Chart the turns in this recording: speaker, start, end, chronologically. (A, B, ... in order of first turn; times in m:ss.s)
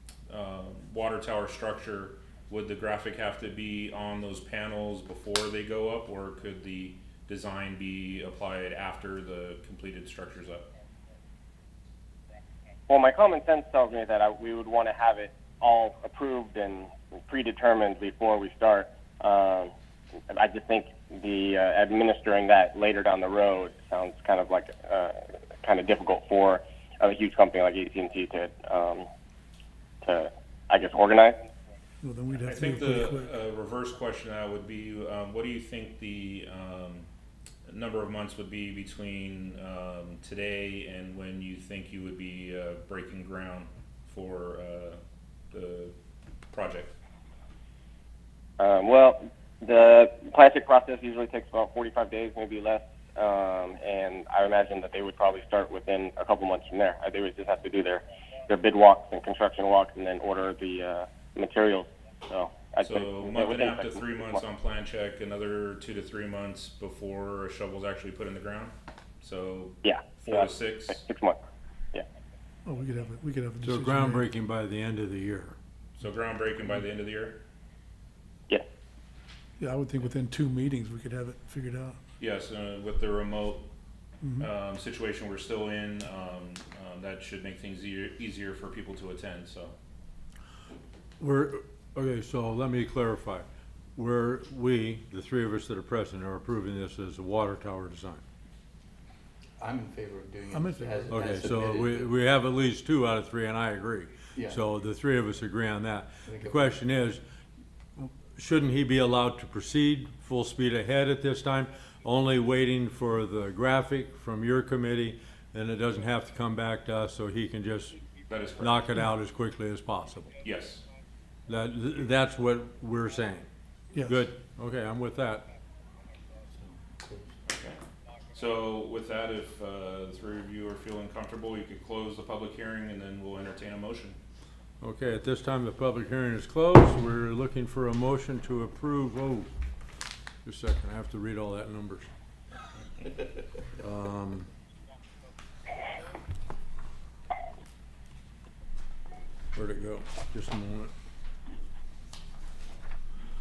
0:00.3-0:10.7 A
0:12.9-0:19.7 B
0:20.3-0:29.1 B
0:30.0-0:31.4 B
0:32.0-0:33.2 C
0:32.4-0:37.1 A
0:37.7-0:45.0 A
0:45.5-0:46.0 A
0:46.5-0:47.0 A
0:48.6-1:04.4 B
1:02.8-1:11.0 A
1:09.8-1:11.4 B
1:12.7-1:14.2 C
1:13.6-1:15.6 D
1:16.0-1:17.4 A
1:19.6-1:22.0 C
1:22.2-1:23.7 A
1:24.4-1:29.8 A
1:31.2-1:38.2 D
1:39.6-1:42.1 E
1:40.6-1:41.0 C
1:41.1-1:47.2 D
1:44.3-1:44.6 E
1:46.3-1:46.7 E
1:48.0-1:58.0 D
1:58.3-1:58.9 A
1:58.6-2:00.4 D
2:00.4-2:00.8 A
2:01.5-2:03.5 D
2:04.0-2:04.2 C
2:04.0-2:05.5 D
2:06.6-2:07.2 E
2:07.5-2:07.8 A
2:08.3-2:14.2 A
2:14.8-2:19.5 D
2:20.4-2:22.1 D
2:23.8-2:24.5 D
2:29.5-2:30.9 D